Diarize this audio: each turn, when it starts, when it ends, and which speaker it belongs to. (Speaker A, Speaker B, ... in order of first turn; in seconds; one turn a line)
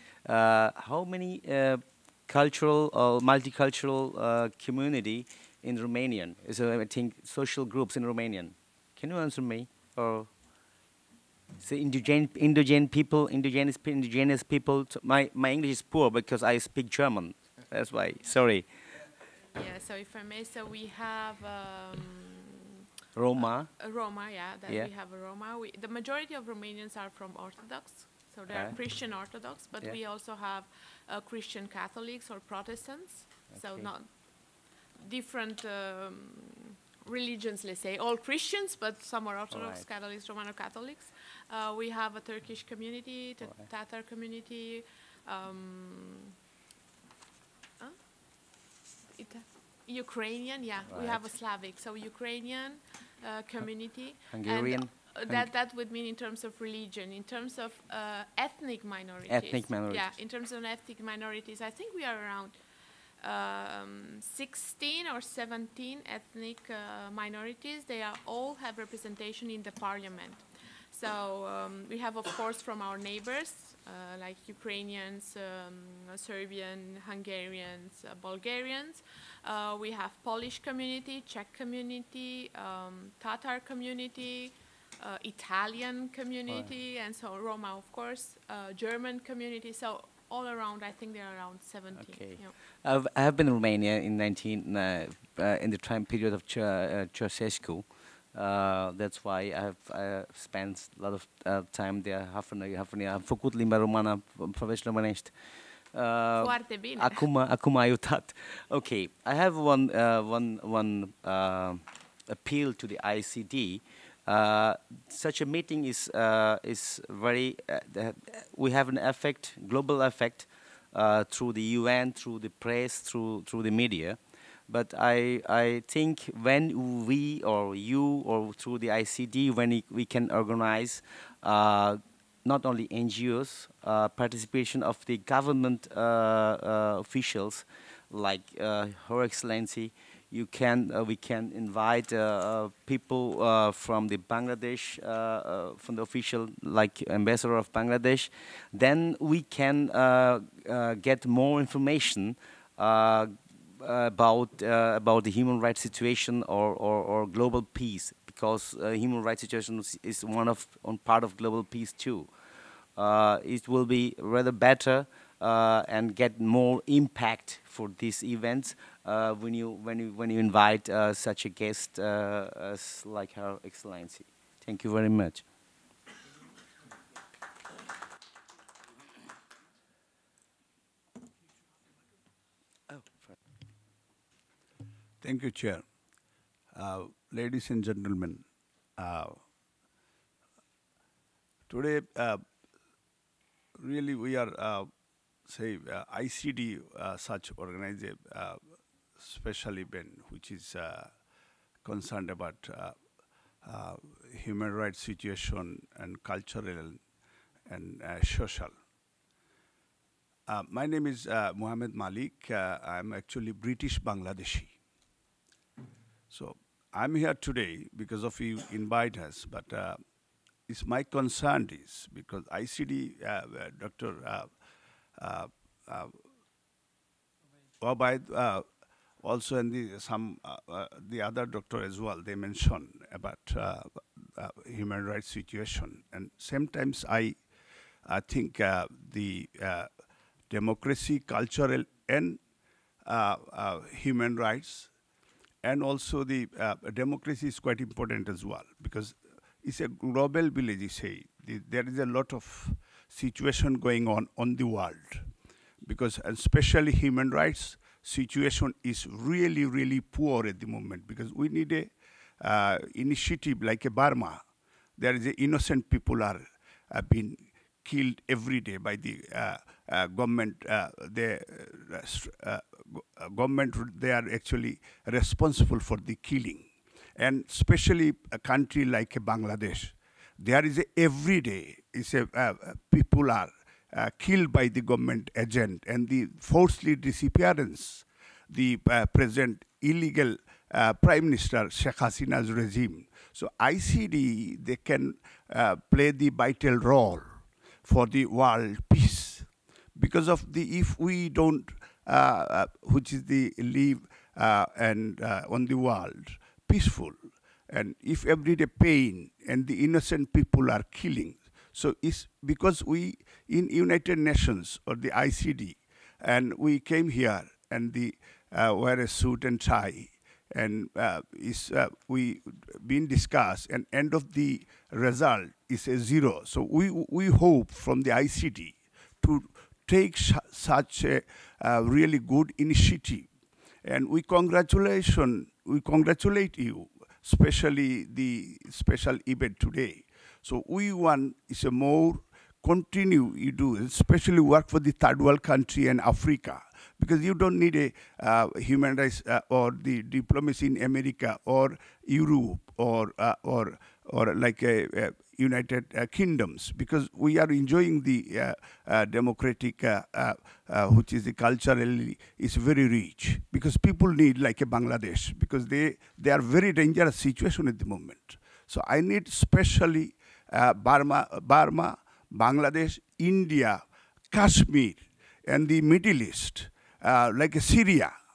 Speaker A: 0.2-10.3
Speaker A: 11.6-18.7
Speaker B: 19.5-22.8
Speaker A: 23.1-23.7
Speaker B: 23.4-34.1
Speaker A: 28.5-28.8
Speaker A: 33.5-33.9
Speaker B: 35.0-46.3
Speaker A: 39.5-39.8
Speaker B: 49.1-62.5
Speaker A: 50.9-51.2
Speaker A: 54.3-55.4
Speaker A: 59.3-60.1
Speaker B: 63.2-92.5
Speaker A: 92.0-105.3
Speaker A: 105.9-162.3
Speaker B: 106.4-107.2
Speaker A: 162.9-175.4
Speaker A: 182.9-183.3
Speaker C: 185.2-185.8
Speaker C: 186.7-188.4
Speaker C: 189.0-189.4
Speaker C: 191.7-192.4
Speaker C: 193.8-194.9
Speaker C: 195.4-198.6
Speaker C: 199.2-201.2
Speaker C: 201.8-202.9
Speaker C: 203.6-207.0
Speaker C: 207.7-208.7
Speaker C: 210.5-214.7
Speaker C: 216.3-220.0
Speaker C: 220.7-224.5
Speaker C: 225.2-226.1
Speaker C: 227.8-228.7
Speaker C: 229.2-237.4
Speaker C: 238.0-239.9
Speaker C: 240.5-242.4
Speaker C: 243.0-244.9
Speaker C: 245.6-255.3
Speaker C: 255.8-264.4
Speaker C: 265.0-307.1
Speaker C: 307.7-333.3
Speaker C: 333.8-378.1